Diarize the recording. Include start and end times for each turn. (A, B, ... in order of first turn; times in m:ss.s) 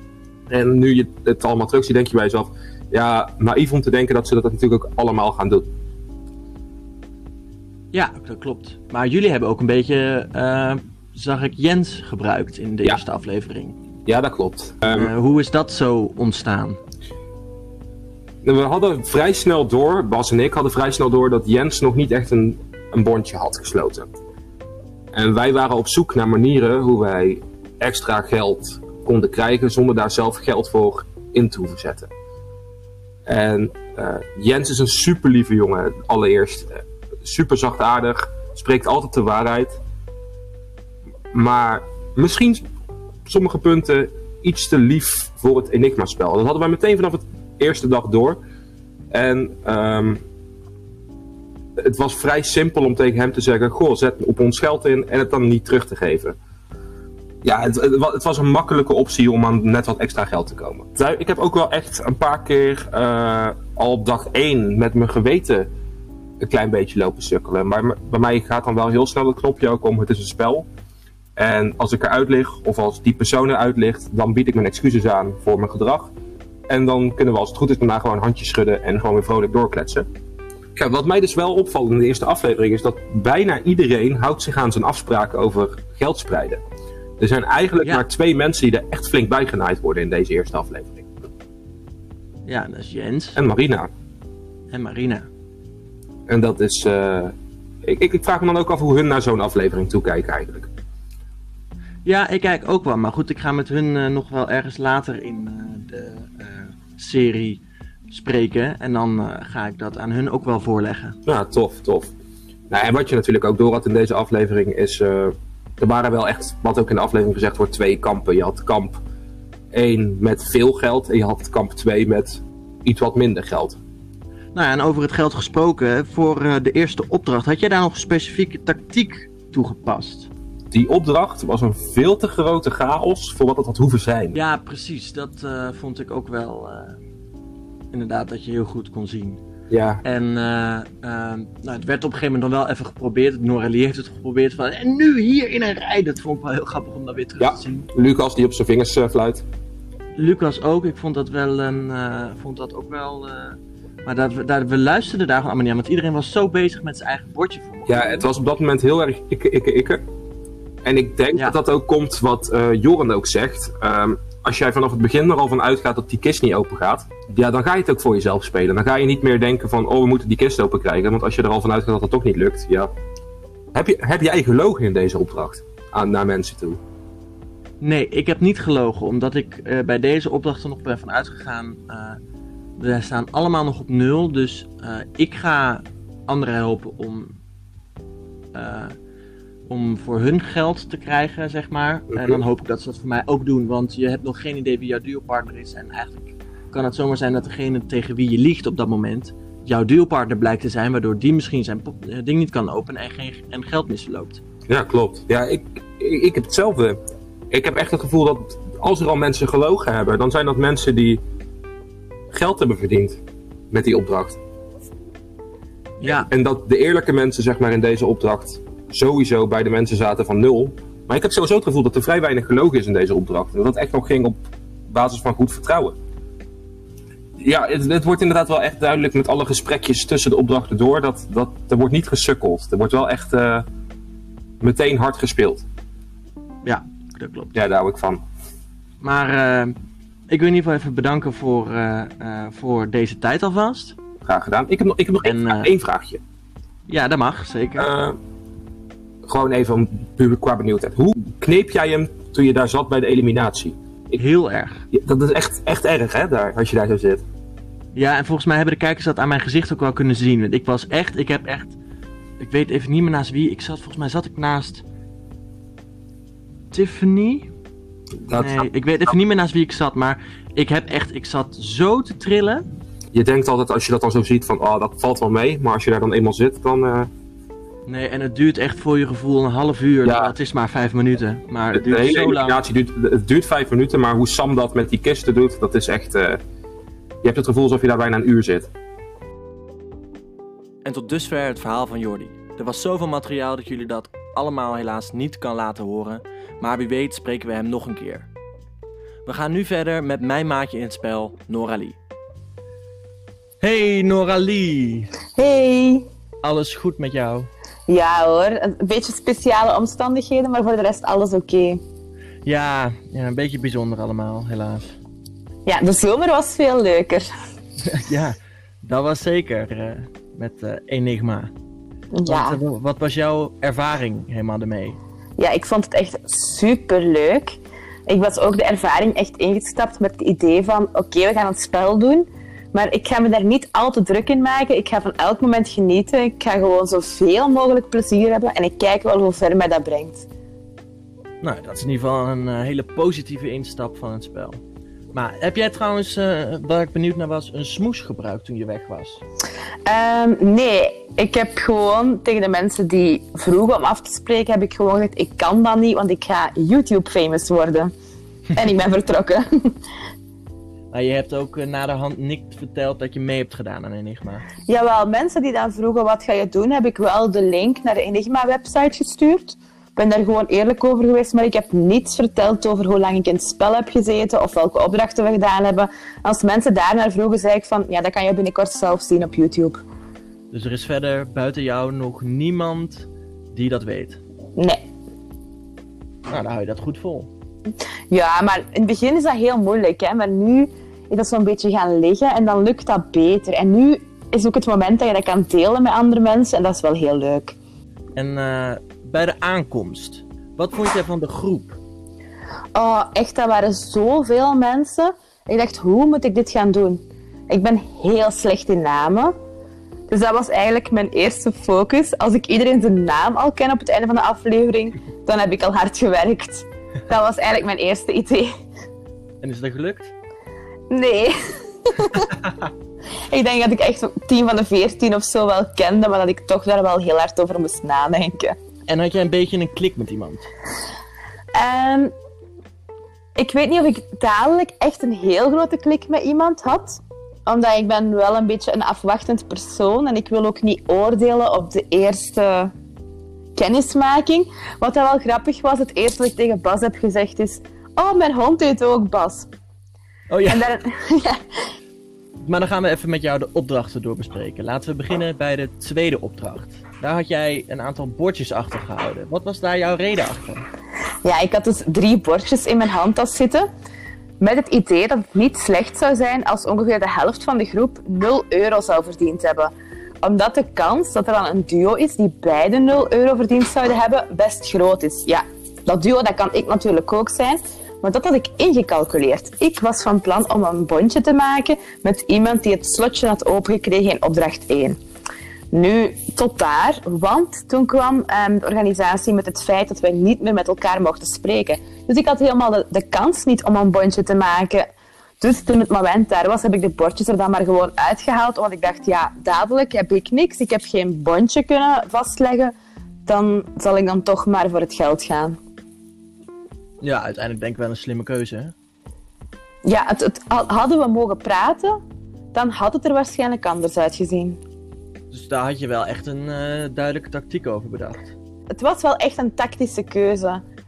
0:00.5-0:05.7 A
0:07.9-0:13.8 B
0:14.0-0:15.1 A
0:14.9-0:16.8 B
0:18.4-0:24.1 A
0:25.1-0:32.1 A
0:33.3-0:39.8 A
0:41.3-0:42.7 A
0:43.2-0:48.4 A
0:49.1-0:50.2 A
0:51.8-0:56.4 A
0:57.4-1:05.7 A
1:06.4-1:10.6 A
1:11.4-1:16.1 A
1:16.7-1:20.1 A
1:20.8-1:26.6 A
1:27.2-1:31.0 A
1:32.4-1:33.4 B
1:33.4-1:33.9 A
1:34.7-1:35.3 B
1:36.3-1:37.3 A
1:37.8-1:40.7 A
1:42.0-1:51.2 B
1:51.2-1:52.1 A
1:52.7-1:59.0 A
1:59.7-2:03.8 A
2:04.5-2:10.3 B
2:10.7-2:14.4 A
2:14.3-2:17.0 B
2:17.9-2:19.4 B
2:19.7-2:20.0 A
2:20.0-2:27.9 B
2:27.4-2:29.4 A
2:30.2-2:38.3 B
2:37.9-2:40.0 A
2:40.8-2:52.9 A
2:53.7-2:56.8 A
2:57.8-3:02.2 B
3:02.8-3:07.4 B
3:08.5-3:08.9 B
3:09.7-3:24.4 B
3:12.1-3:12.4 A
3:24.7-3:27.0 A
3:27.5-3:31.2 A
3:32.3-3:33.2 A
3:33.7-3:34.4 A
3:36.0-3:36.3 B
3:36.0-3:44.4 A
3:44.9-3:46.0 A
3:47.4-3:53.6 A
3:54.6-3:55.6 A
3:56.6-3:57.5 B
3:57.5-3:58.2 A
3:59.0-3:59.8 B
4:00.3-4:04.0 B
4:04.2-4:06.2 A
4:05.2-4:05.7 B
4:06.9-4:07.9 B
4:07.8-4:08.2 A
4:09.2-4:14.2 A
4:14.2-4:14.8 B
4:14.9-4:17.2 A
4:17.9-4:21.8 B
4:22.4-4:24.8 B
4:26.7-4:27.5 B
4:28.2-4:28.7 A
4:28.4-4:32.6 B
4:33.1-4:37.1 A
4:37.9-4:42.6 B
4:40.0-4:40.3 A
4:41.7-4:46.4 A
4:47.2-4:48.7 A
4:50.8-4:58.3 B
4:59.2-5:02.0 B
5:03.6-5:05.1 B
5:05.4-5:06.0 C
5:06.4-5:07.5 B
5:07.9-5:11.8 C
5:12.4-5:15.0 B
5:15.6-5:17.3 C
5:17.8-5:21.5 B
5:22.1-5:22.6 C
5:22.2-5:25.0 B
5:25.4-5:40.2 C
5:41.4-5:44.6 B
5:45.1-5:49.2 B
5:49.8-5:57.9 C
5:58.5-5:59.7 C
6:00.9-6:04.5 B
6:04.7-6:19.8 C
6:20.5-6:24.2 B
6:24.6-6:24.8 C
6:26.3-6:27.3 B
6:28.1-6:37.6 C
6:38.2-6:41.8 B
6:42.7-6:49.3 C
6:50.1-6:58.5 C
6:59.4-7:00.1 B
7:00.9-7:01.3 C
7:01.8-7:02.3 C
7:03.3-7:08.6 C
7:08.9-7:10.5 B
7:11.5-7:12.1 C
7:13.4-7:22.7 C
7:23.6-7:29.5 C
7:30.3-7:30.7 B
7:30.5-7:31.4 C
7:32.4-7:40.6 B
7:41.2-7:43.7 C
7:44.4-8:05.0 C
8:05.7-8:14.8 C
8:15.4-8:22.7 C
8:23.2-8:25.6 C
8:27.0-8:28.7 B
8:29.8-8:32.0 C
8:32.5-8:34.6 C
8:35.3-8:38.3 B
8:38.7-8:40.6 C